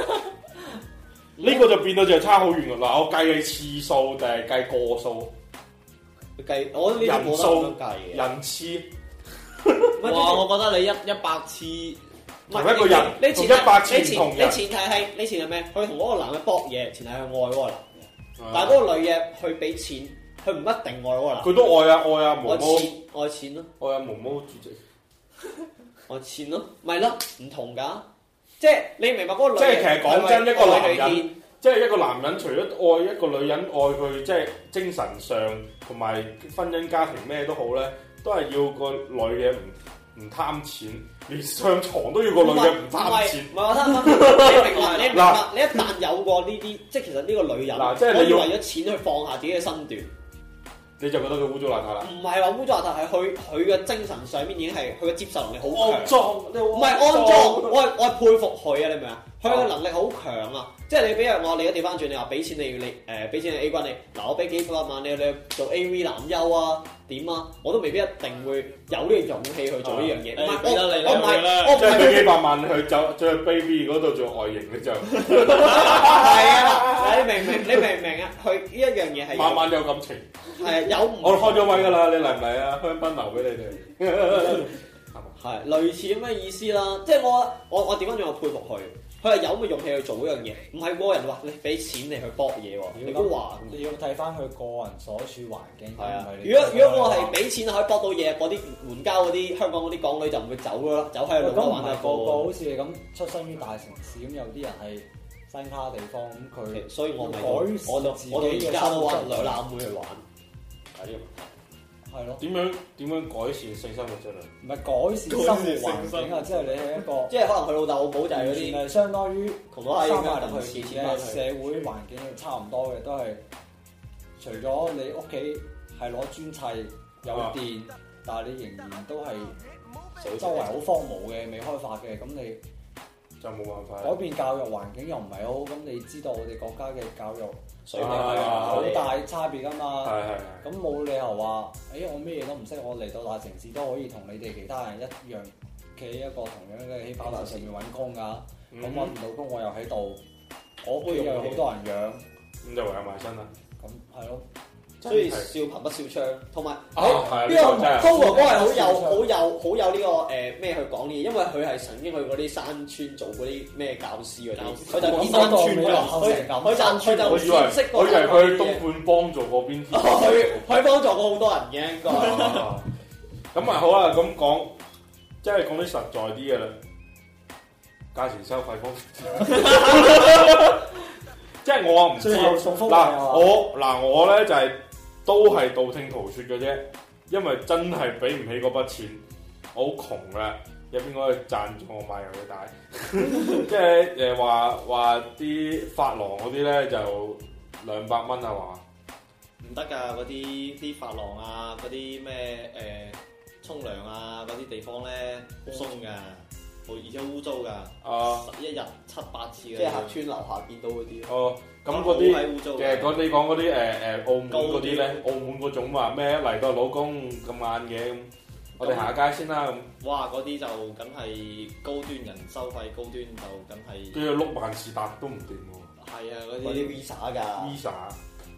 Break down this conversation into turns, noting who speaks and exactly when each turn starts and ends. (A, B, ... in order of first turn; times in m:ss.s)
0:01.4-0:01.7 A
0:01.4-0:05.3 B
0:06.4-0:08.2 A
0:06.9-0:08.9 B
0:09.6-0:10.0 B
0:10.0-0:10.6 A
0:10.0-0:12.0 C
0:12.5-0:14.6 B
0:12.5-0:17.9 A
0:18.4-0:18.9 B
0:18.5-0:21.6 A
0:21.4-0:22.9 B
0:22.4-0:23.7 A
0:23.8-0:24.8 B
0:26.1-0:28.1 A
0:28.6-0:31.3 A
0:29.6-0:45.9 B
0:42.4-0:50.1 A
0:44.6-0:45.3 C
0:47.7-0:48.6 B
0:51.0-0:52.1 B
0:52.0-1:12.4 A
0:55.6-0:57.9 B
0:59.4-0:59.7 B
1:09.8-1:12.1 C
1:11.6-1:17.7 B
1:15.4-1:19.7 A
1:19.3-1:25.4 B
1:20.6-1:22.0 A
1:25.4-1:33.8 A
1:32.9-1:37.4 D
1:36.0-1:42.6 A
1:41.3-1:49.6 D
1:46.7-1:50.2 A
1:50.9-1:51.5 A
1:52.1-1:52.4 D
1:52.4-1:54.5 B
1:54.6-1:57.4 D
1:55.3-1:57.0 C
1:57.3-1:58.9 A
1:58.3-2:03.4 D
1:59.7-2:01.5 A
2:04.4-2:09.6 D
2:07.3-2:07.6 B
2:10.2-2:10.8 A
2:10.3-2:12.6 D
2:13.4-2:14.2 B
2:14.0-2:30.2 D
2:17.8-2:19.2 A
2:18.0-2:19.0 B
2:20.0-2:20.7 B
2:27.2-2:27.7 A
2:28.7-2:29.2 B
2:30.8-2:32.2 D
2:31.1-2:31.5 B
2:31.1-2:31.6 A
2:32.6-2:33.5 B
2:33.8-2:34.4 D
2:35.0-2:35.5 B
2:35.0-2:48.8 A
2:37.0-2:38.4 B
2:37.0-2:39.3 D
2:44.6-2:47.6 C
2:44.9-2:47.3 D
2:47.2-2:50.9 B
2:49.9-2:52.7 A
2:52.1-2:52.9 B
2:53.5-2:54.8 B
2:55.4-2:56.8 B
2:58.1-3:00.9 B
3:01.6-3:18.8 B
3:02.2-3:03.6 D
3:19.6-3:30.2 C
3:28.0-3:28.5 B
3:29.7-3:31.3 A
3:31.3-3:39.9 B
3:31.9-3:33.2 C
3:34.5-3:35.2 C
3:38.8-3:39.1 C
3:40.0-3:44.2 C
3:44.1-3:45.9 B
3:46.0-3:47.0 C
3:46.6-3:47.8 A
3:47.6-3:48.2 B